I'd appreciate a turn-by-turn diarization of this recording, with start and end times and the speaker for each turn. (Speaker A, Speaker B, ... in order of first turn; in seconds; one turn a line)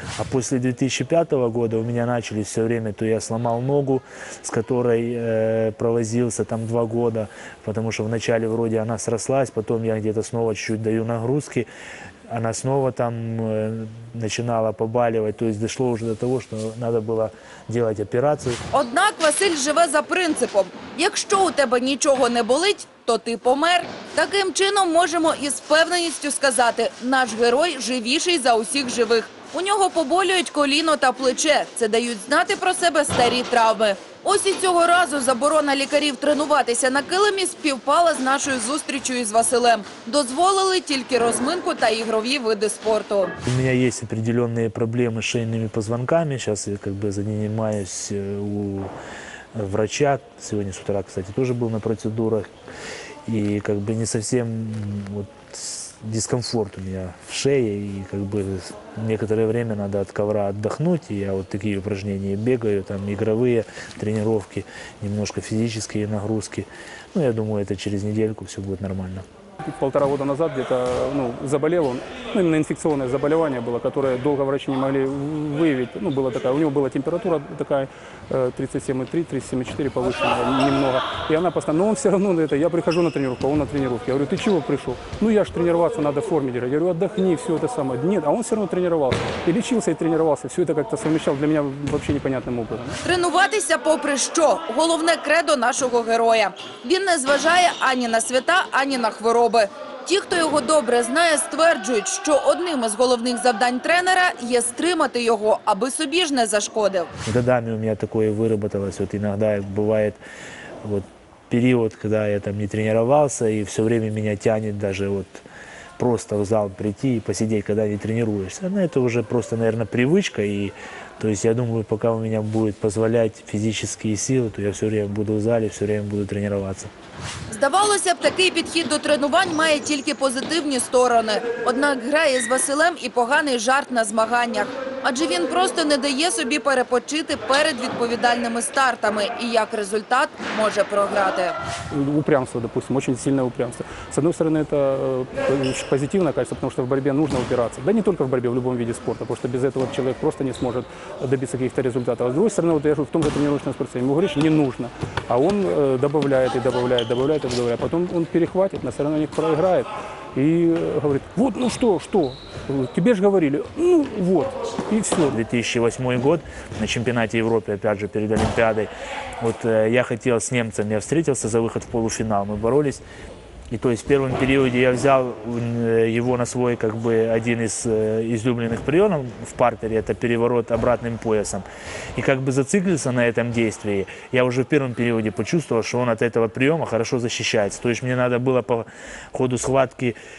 Speaker A: 0.2-11.7
Speaker A: 12.3-18.6
Speaker B: 18.7-43.3
Speaker A: 43.4-48.9
Speaker A: 49.5-52.5
Speaker A: 53.3-69.2
Speaker C: 69.6-93.0
Speaker B: 93.0-107.1
Speaker A: 107.2-110.2
Speaker A: 110.8-115.4
Speaker A: 116.0-126.9
Speaker B: 127.5-141.6
Speaker C: 141.9-165.4
Speaker A: 165.3-168.9
Speaker A: 169.4-173.0
Speaker A: 173.7-190.2